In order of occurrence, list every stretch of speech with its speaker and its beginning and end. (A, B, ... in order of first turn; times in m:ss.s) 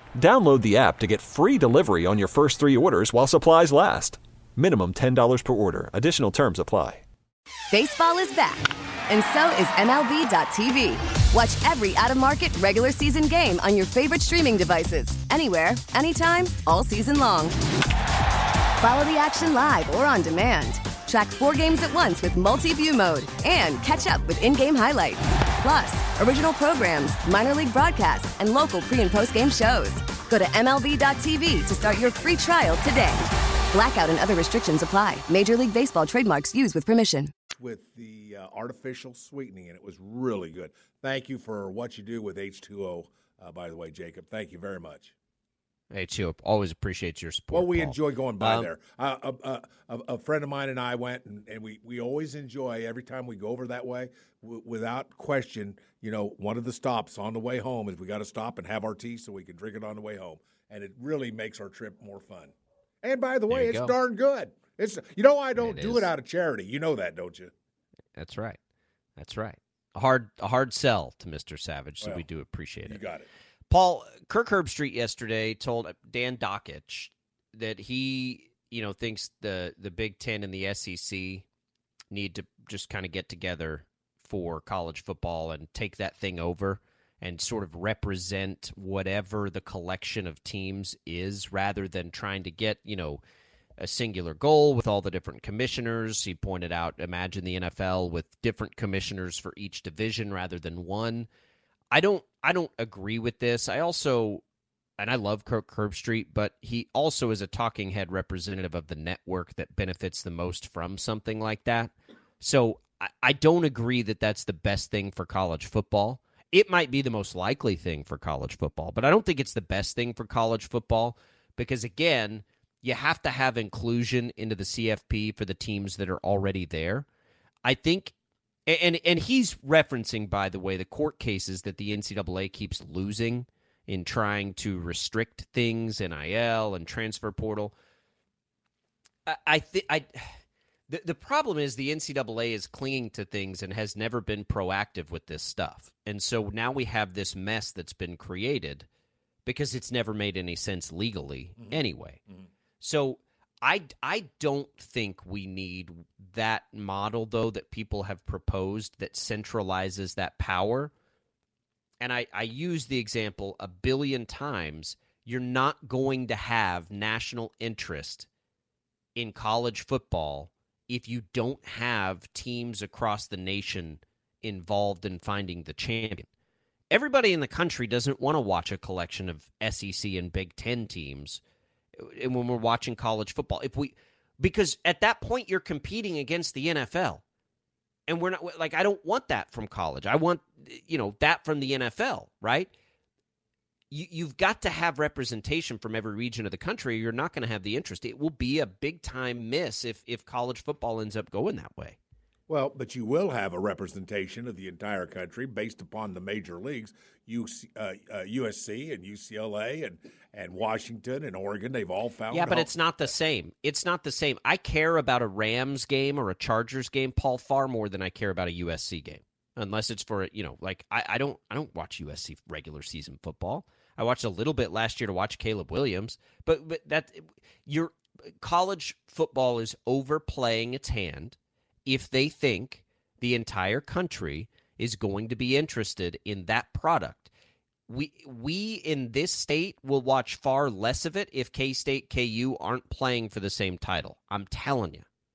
0:00.2-0:07.0 A
0:07.7-0:17.6 B
0:18.8-0:37.3 B
0:37.5-0:45.1 C
0:45.9-0:48.7 D
0:47.5-1:07.5 C
1:03.5-1:04.0 D
1:05.6-1:06.1 D
1:08.2-1:08.6 D
1:09.2-1:13.0 D
1:12.9-1:13.3 C
1:13.7-1:21.4 D
1:22.1-1:33.2 D
1:33.8-1:41.3 D
1:41.9-1:44.4 D
1:45.0-2:07.1 D
2:07.6-2:08.1 D
2:08.7-2:17.7 D
2:19.3-2:20.4 D
2:20.9-2:28.9 D
2:29.4-2:32.2 D
2:32.8-2:40.9 D
2:42.0-2:48.3 D
2:49.2-2:56.3 D
2:56.9-3:01.4 D
3:02.0-3:07.2 D
3:08.1-3:12.7 D
3:13.9-3:22.0 D
3:22.5-3:32.7 C
3:32.3-3:57.3 D
3:57.9-4:05.1 D